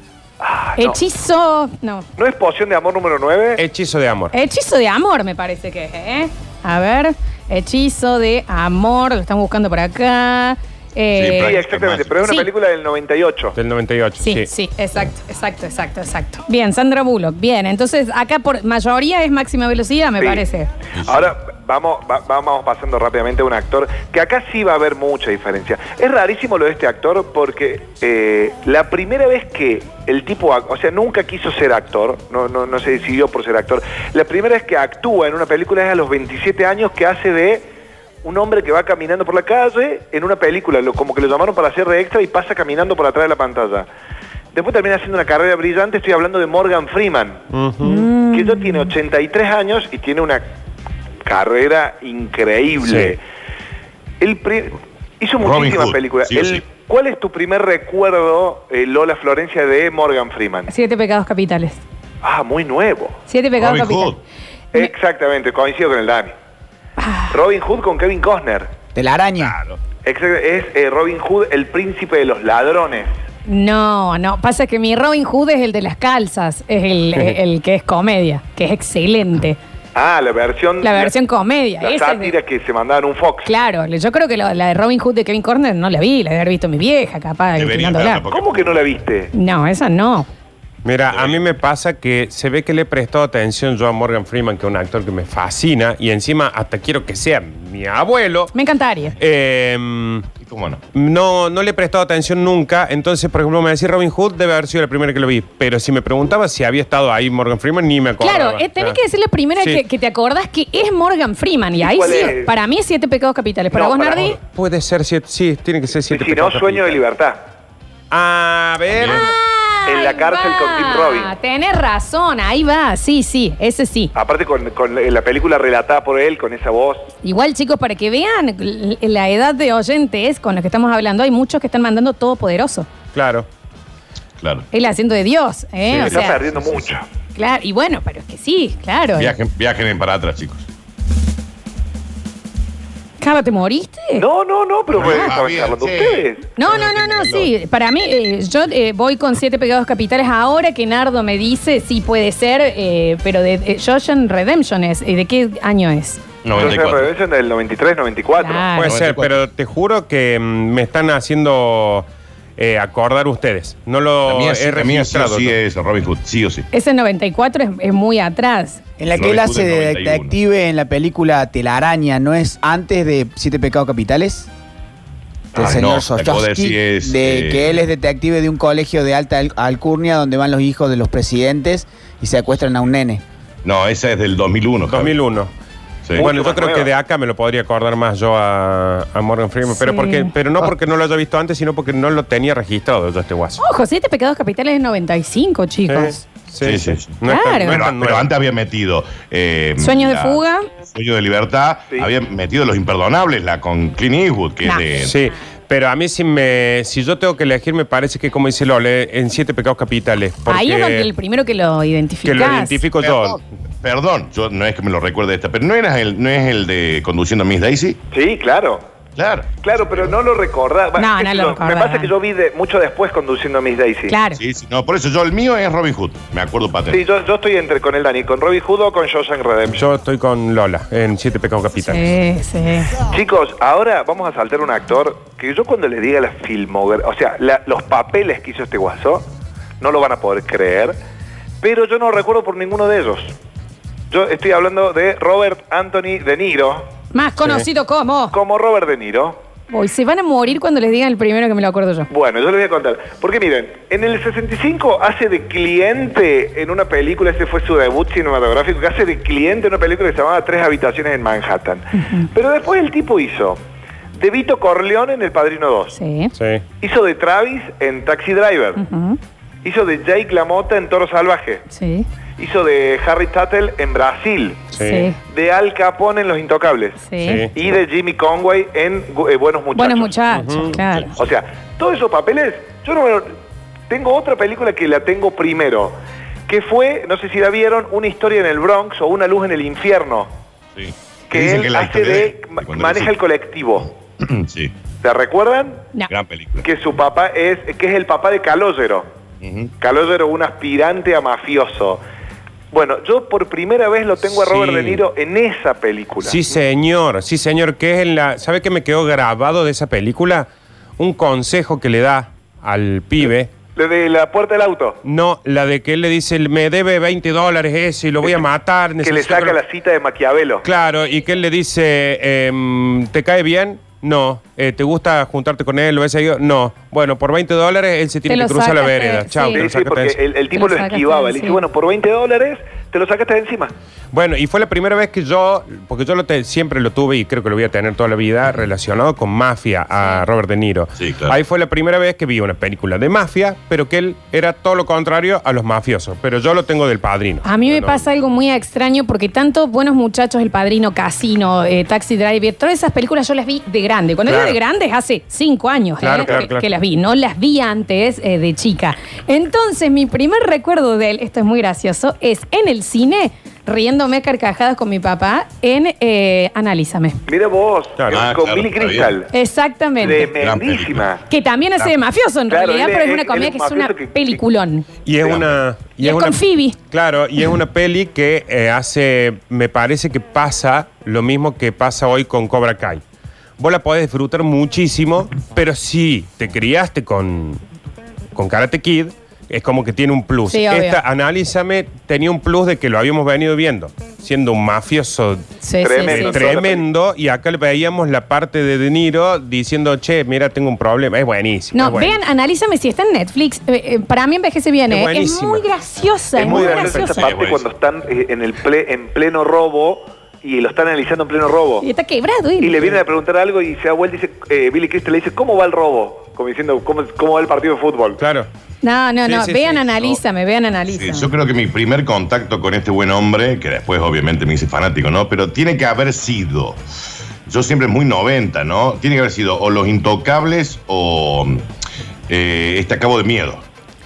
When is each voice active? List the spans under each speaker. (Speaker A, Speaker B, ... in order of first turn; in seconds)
Speaker A: 0.4-1.0, 2.2-3.6, 11.4-13.6, 21.0-37.6, 38.2-43.9, 44.5-47.4, 48.3-50.4, 51.3-53.2, 54.2-60.7, 62.2-63.2, 64.7-66.3, 67.3-68.7, 70.0-73.1, 80.0-81.1, 81.8-83.5, 88.3-89.3, 111.8-112.5, 113.7-114.4, 116.1-117.5, 119.9-121.3, 124.2-127.1, 136.0-137.1, 144.2-146.5, 156.5-158.7, 186.2-186.9, 218.1-218.8, 219.6-224.2, 226.9-229.8, 233.1-239.2, 239.8-240.9, 241.6-243.3, 244.1-246.9, 248.3-249.4, 252.1-263.6, 264.2-265.9, 266.8-268.8, 269.6-271.7, 272.4-280.1, 281.2-283.4, 283.9-286.0, 286.5-290.3, 291.3-293.9, 295.0-295.9, 296.6-299.1, 299.8-302.0, 302.7-306.4, 313.8-315.0, 319.0-320.6, 329.5-333.7, 367.3-369.3, 370.0-371.2, 372.5-374.4, 395.8-396.9, 406.4-411.9, 412.6-418.2
Speaker B: 0.8-2.1, 4.3-11.6, 12.2-12.5, 14.2-20.7, 47.8-48.9, 60.7-61.8, 63.3-64.2, 67.0-67.4, 73.5-79.6, 80.8-82.3, 83.5-88.2, 89.3-90.3, 98.5-99.1, 108.2-114.4, 119.1-124.1, 127.2-132.9, 134.7-136.4, 137.4-139.3, 143.2-144.2, 146.6-156.2, 158.4-158.9, 166.7-168.8, 189.7-190.3, 193.6-196.2, 197.3-197.8, 199.8-200.7, 210.5-212.8, 221.0-222.1, 224.1-224.4, 231.8-232.9, 247.1-248.3, 249.7-252.1, 262.0-262.3, 265.9-266.3, 268.8-269.2, 271.7-272.1, 274.8-275.2, 277.1-277.5, 279.8-281.1, 328.3-329.7, 330.5-331.6, 347.4-367.2, 369.3-370.3, 371.3-374.9, 376.0-376.8, 390.5-391.0, 395.6-396.6, 401.7-407.2, 411.8-412.9, 418.8-421.3
Speaker C: 3.6-4.3, 13.6-14.5, 47.5-48.1, 52.8-53.1, 90.8-98.5, 99.2-100.3, 100.9-109.0, 114.4-117.0, 118.1-119.3, 133.1-133.5, 158.8-162.1, 162.6-165.6, 184.9-185.5, 186.2-193.6, 195.9-198.3, 205.0-211.1, 212.3-213.4, 229.7-232.1, 266.4-266.6, 274.7-275.1, 277.2-277.5, 280.3-280.8, 304.2-305.1, 306.2-313.5, 315.0-319.6, 320.6-330.2, 334.1-348.1, 354.3-354.6, 356.0-356.7, 368.0-368.3, 375.1-383.0, 383.6-387.6, 388.4-395.5, 396.1-402.2, 404.9-405.6, 406.4-407.3, 418.2-418.5, 419.2-420.2
Speaker D: 11.1-12.2, 21.0-21.3, 55.4-56.6, 63.6-64.2, 69.4-69.8, 87.5-88.9, 91.1-91.5, 100.4-100.8, 118.9-119.3, 134.4-134.7, 135.9-137.0, 139.1-140.7, 144.9-147.5, 156.4-157.1, 158.8-159.4, 164.3-166.7, 169.1-170.4, 175.6-177.8, 183.6-185.1, 196.6-205.2, 213.0-218.0, 219.2-220.1, 224.4-227.0, 290.8-293.2, 294.2-294.7, 296.1-296.7, 299.4-299.7, 341.0-341.4, 368.1-369.1, 370.1-371.1, 375.2-375.6, 407.2-407.6, 420.9-426.8, 427.5-431.7, 432.3-433.6
Speaker E: 69.0-69.5, 169.0-174.5, 175.5-183.2